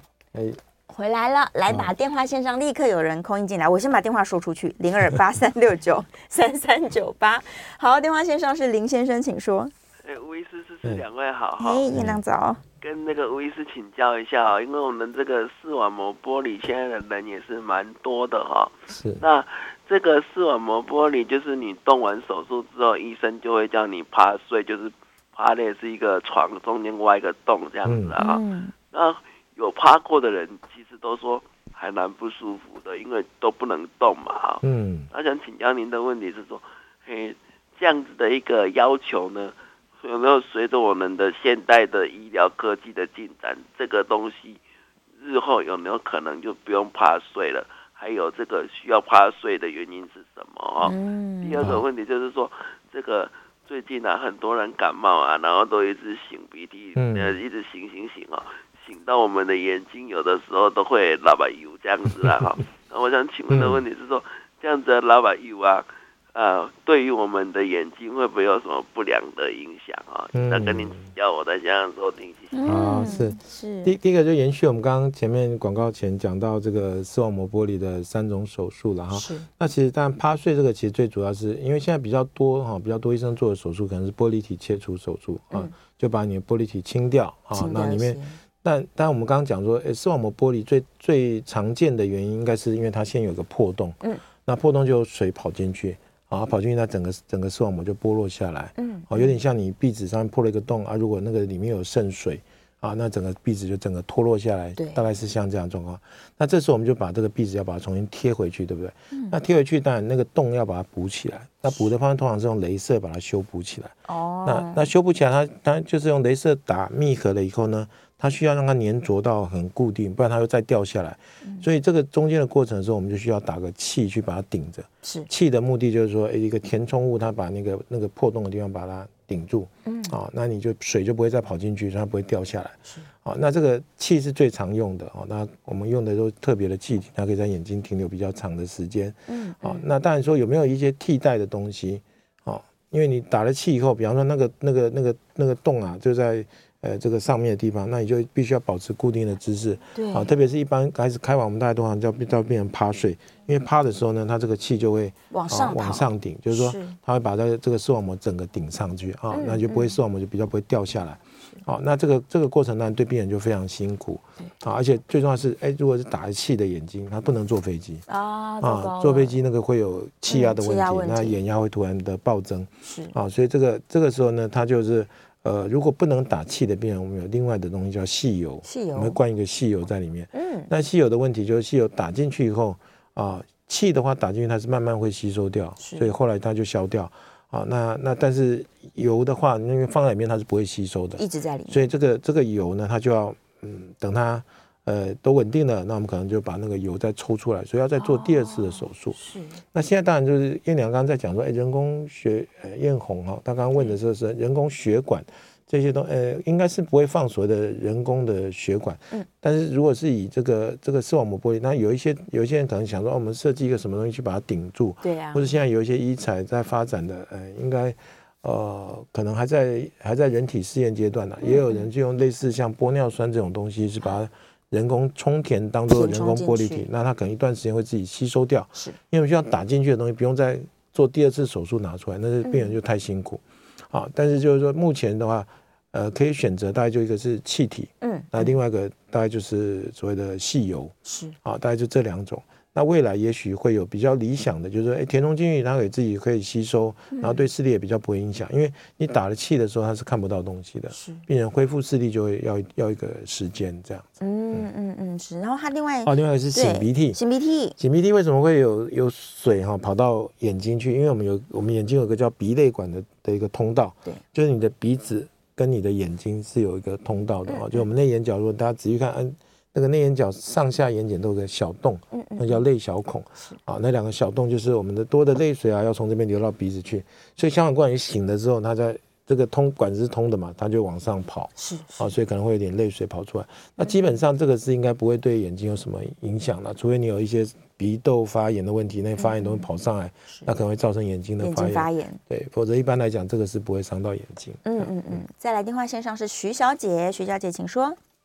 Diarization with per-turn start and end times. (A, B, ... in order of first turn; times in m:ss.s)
0:00.3-0:00.6 A
0:00.9-0:09.7 B
0:10.0-0:11.9 C
0:11.6-0:12.6 B
0:11.9-0:12.2 A
0:12.8-0:44.6 C
0:18.9-0:19.2 A
0:27.8-0:28.2 A
0:28.2-0:28.7 B
0:34.6-0:35.1 A
0:45.2-1:13.1 C
0:50.8-0:51.7 B
0:51.6-0:51.8 A
0:57.0-0:57.4 A
1:03.5-1:03.8 A
1:10.3-1:11.1 A
1:12.5-1:14.0 B
1:12.6-2:48.1 A
1:19.1-1:19.5 B
1:27.5-1:28.4 B
1:38.8-1:39.4 B
1:44.8-1:45.0 B
1:54.1-1:54.9 B
2:05.0-2:05.3 B
2:09.9-2:10.2 B
2:19.3-2:19.8 B
2:30.0-2:30.3 B
2:35.3-2:37.0 B
2:39.3-2:40.0 B
2:48.1-2:49.4 B
2:48.6-4:14.7 A
2:50.3-2:51.4 B
2:52.8-2:53.2 B
2:58.6-2:59.2 B
3:00.3-3:00.7 B
3:05.8-3:06.1 B
3:11.2-3:11.8 B
3:18.0-3:19.6 B
3:35.0-3:35.5 B
3:41.4-3:41.9 B
3:45.9-3:46.9 B
3:52.4-3:52.8 B
3:58.0-3:58.5 B
4:01.0-4:01.4 B
4:07.1-4:07.5 B
4:10.9-4:11.2 B
4:14.2-4:17.8 B
4:16.0-4:17.2 A
4:17.8-4:55.0 A
4:27.5-4:27.8 B
4:32.1-4:32.6 B
4:41.6-4:42.2 B
4:49.2-4:49.7 B
4:51.4-4:52.2 B
4:54.6-4:58.0 B